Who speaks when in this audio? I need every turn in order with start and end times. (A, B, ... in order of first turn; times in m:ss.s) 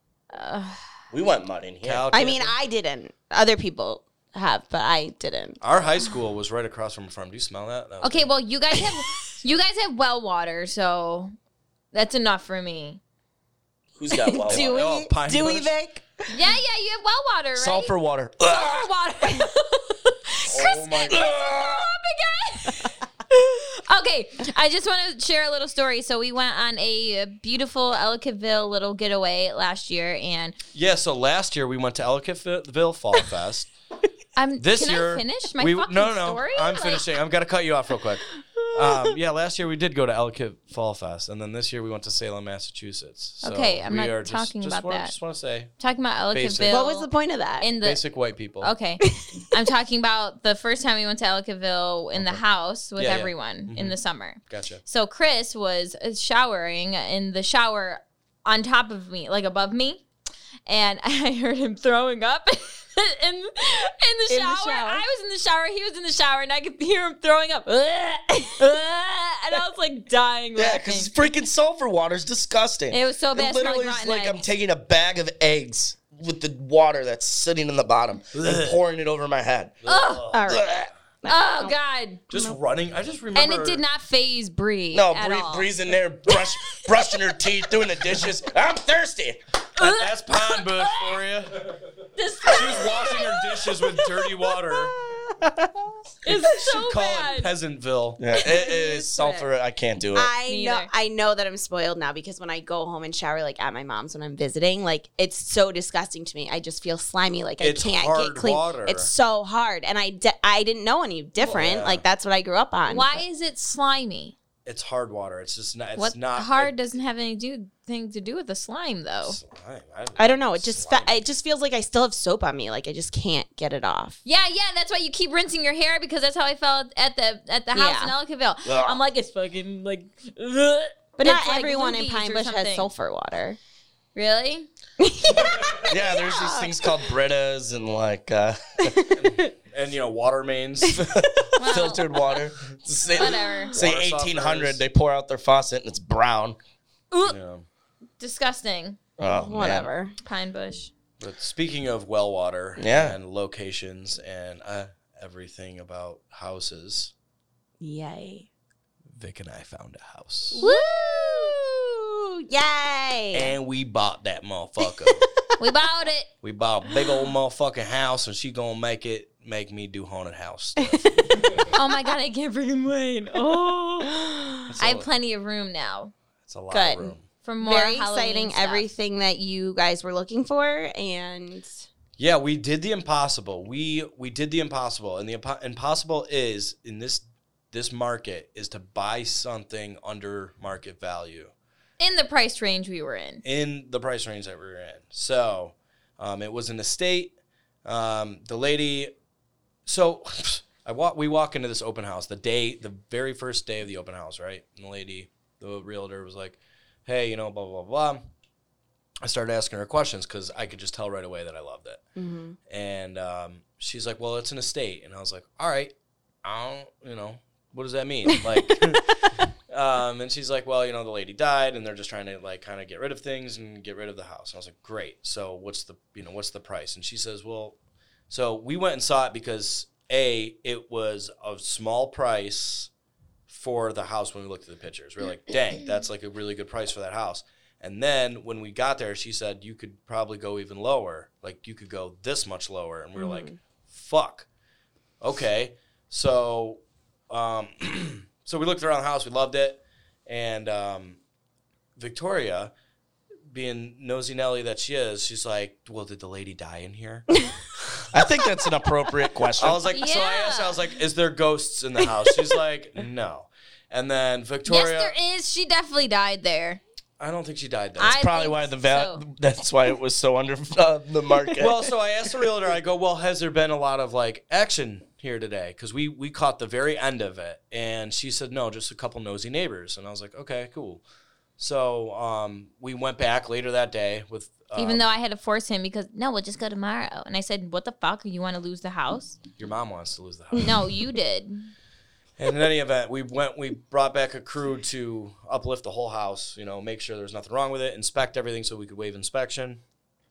0:00.3-0:00.8 A
0:01.1-0:02.1 B
0:01.8-0:02.5 C
0:02.1-0:05.6 D
0:05.6-0:08.3 C
0:08.0-0:11.3 A
0:11.9-0:13.0 A
0:14.0-0:14.8 B
0:14.1-0:16.3 D
0:14.5-0:15.7 C
0:16.3-0:17.9 A
0:17.6-0:18.9 B
0:18.4-0:30.6 A
0:20.4-0:21.3 C
0:21.1-0:21.9 B
0:30.7-0:33.7 C
0:34.4-0:37.1 A
0:34.6-0:45.7 C
0:43.4-0:45.1 A
0:45.8-0:47.1 A
0:46.3-0:46.8 C
0:46.7-0:47.7 D
0:47.6-0:48.0 A
0:47.8-0:48.7 C
0:48.6-1:00.0 A
0:49.1-0:49.4 D
0:52.1-0:52.4 C
0:53.0-0:54.8 C
1:00.6-1:11.1 A
1:04.3-1:05.0 D
1:10.6-1:19.7 B
1:12.9-1:14.4 A
1:18.3-1:18.8 C
1:19.8-1:20.5 C
1:19.8-1:20.3 A
1:20.3-1:21.7 D
1:20.5-1:20.9 B
1:21.2-1:22.2 A
1:22.3-1:23.8 C
1:23.3-1:25.7 A
1:24.9-1:29.4 B
1:26.3-1:27.1 A
1:29.8-1:31.2 A
1:29.8-1:31.9 C
1:32.2-1:34.1 A
1:32.4-1:35.0 C
1:36.2-1:37.5 A
1:36.3-1:38.2 C
1:38.2-1:40.3 B
1:38.3-1:39.5 A
1:40.1-1:53.2 D
1:40.4-1:40.9 A
1:47.6-1:49.1 C
1:51.4-1:52.0 C
1:52.9-1:54.4 A
1:54.6-1:56.7 C
1:56.0-1:59.4 A
1:59.2-2:01.2 C
2:00.2-2:04.2 D
2:04.2-2:12.9 A
2:07.7-2:08.1 D
2:08.6-2:09.0 B
2:11.2-2:13.6 D
2:14.1-2:14.7 A
2:15.0-2:17.0 D
2:15.8-2:19.1 B
2:18.9-2:19.2 D
2:19.1-2:21.3 C
2:21.1-2:26.6 B
2:21.6-2:22.1 A
2:23.1-2:23.7 A
2:23.7-2:24.8 C
2:27.1-2:27.4 A
2:27.2-2:27.6 C
2:28.2-2:29.0 A
2:29.2-2:29.9 B
2:29.3-2:30.1 D
2:30.2-2:30.9 A
2:31.2-2:37.1 C
2:32.8-2:33.2 B
2:37.8-2:38.5 D
2:39.1-2:40.6 C
2:40.5-2:41.5 A
2:40.6-2:43.5 D
2:43.3-2:45.2 C
2:45.6-2:46.3 A
2:46.4-2:51.4 C
2:50.8-2:51.6 D
2:51.7-2:54.1 A
2:54.1-2:54.7 D
2:54.7-2:55.1 C
2:54.8-2:56.1 A
2:56.5-2:57.2 C
2:56.7-3:01.8 D
2:57.4-2:58.9 A
3:02.2-3:11.5 C
3:12.0-3:13.4 A
3:13.4-3:19.1 C
3:19.8-3:28.2 C
3:29.2-3:32.0 C
3:32.2-3:32.6 D
3:32.7-3:35.9 C
3:36.4-3:47.7 C
3:48.3-3:52.9 C
3:53.5-4:04.5 C
4:03.2-4:03.6 D
4:05.2-4:11.2 C
4:12.0-4:12.7 C
4:13.5-4:18.0 C
4:18.1-4:19.8 B
4:19.6-4:25.1 C
4:19.9-4:20.8 A
4:24.6-4:26.8 A
4:27.2-4:28.2 C
4:28.0-4:29.2 A
4:28.0-4:31.9 B
4:31.6-4:41.0 C
4:41.6-4:45.0 C
4:44.8-4:49.4 A
4:49.6-4:50.8 C
4:50.6-4:51.7 A
4:52.4-4:59.8 C